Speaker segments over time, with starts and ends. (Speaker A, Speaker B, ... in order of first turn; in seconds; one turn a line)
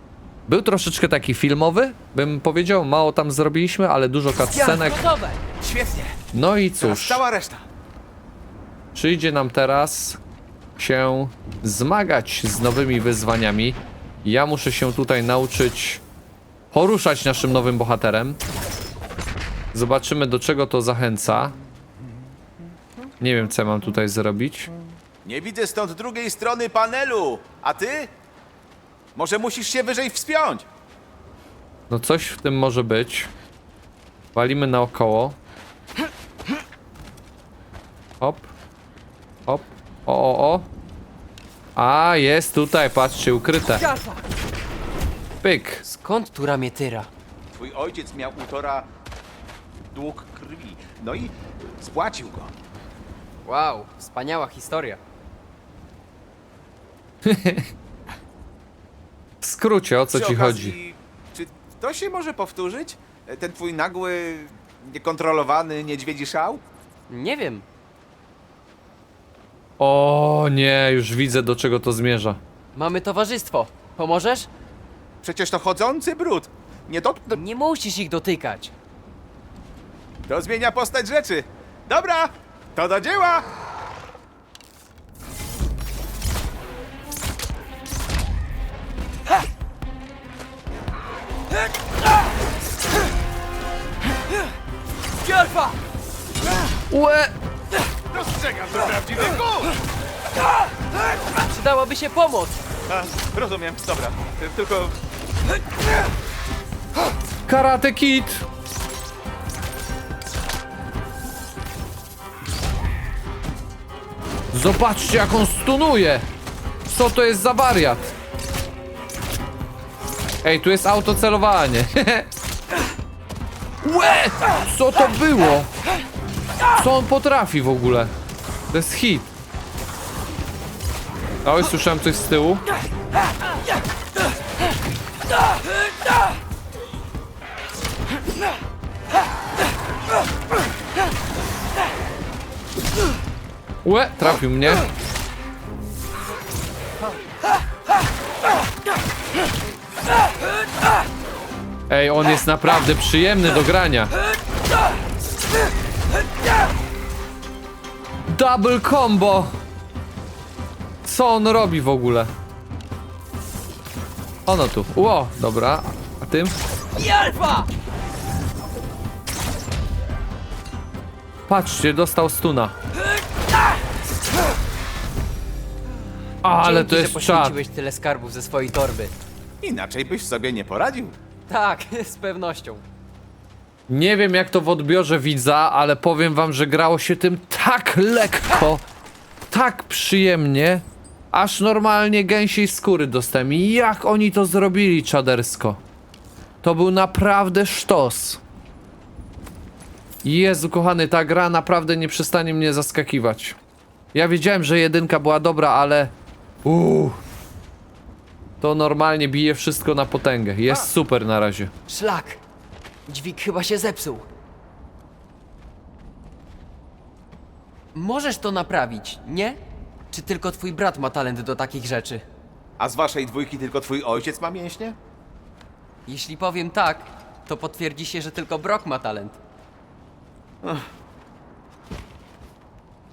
Speaker A: 0.5-5.0
Speaker B: 4.5-5.4
Speaker C: 5.6-6.2
Speaker A: 6.3-7.2
Speaker C: 6.8-7.6
Speaker A: 8.9-10.2
Speaker A: 10.8-16.0
Speaker A: 16.7-18.4
Speaker A: 19.7-21.5
Speaker A: 23.2-24.7
Speaker C: 25.2-28.1
Speaker C: 29.1-30.7
Speaker A: 31.9-33.3
Speaker A: 34.3-35.4
Speaker A: 38.2-38.5
Speaker A: 39.5-40.7
Speaker A: 41.8-43.9
Speaker B: 43.8-44.2
Speaker A: 45.4-45.8
Speaker B: 45.8-47.1
Speaker C: 47.5-48.9
Speaker C: 49.9-52.5
Speaker B: 53.4-55.0
Speaker A: 57.2-57.7
Speaker A: 59.4-60.8
Speaker C: 60.1-66.6
Speaker B: 67.1-67.6
Speaker A: 69.8-72.4
Speaker B: 72.7-74.5
Speaker C: 75.2-77.4
Speaker B: 77.3-78.7
Speaker C: 80.3-83.5
Speaker B: 95.2-95.8
Speaker A: 96.9-97.3
Speaker C: 98.1-99.7
Speaker B: 101.4-102.6
Speaker C: 102.9-105.0
Speaker A: 107.5-108.4
Speaker A: 114.5-116.2
Speaker A: 116.8-118.1
Speaker A: 120.4-122.3
Speaker A: 123.8-125.7
Speaker A: 126.7-128.1
Speaker A: 128.7-129.3
Speaker A: 131.4-132.6
Speaker A: 143.8-144.8
Speaker A: 151.9-154.1
Speaker A: 158.3-159.5
Speaker A: 161.0-162.3
Speaker A: 164.4-166.5
Speaker B: 167.0-167.7
Speaker A: 171.5-172.7
Speaker A: 176.4-177.6
Speaker B: 176.6-179.1
Speaker C: 179.6-181.1
Speaker B: 181.5-182.8
Speaker A: 183.9-188.8
Speaker A: 189.5-195.8
Speaker A: 196.6-198.4
Speaker A: 200.2-203.6
Speaker A: 204.1-206.1
Speaker A: 206.6-207.2
Speaker A: 208.6-211.7
Speaker B: 211.9-212.4
Speaker B: 213.1-214.3
Speaker B: 217.9-219.6
Speaker B: 220.1-222.2
Speaker C: 222.8-224.9
Speaker B: 226.1-229.4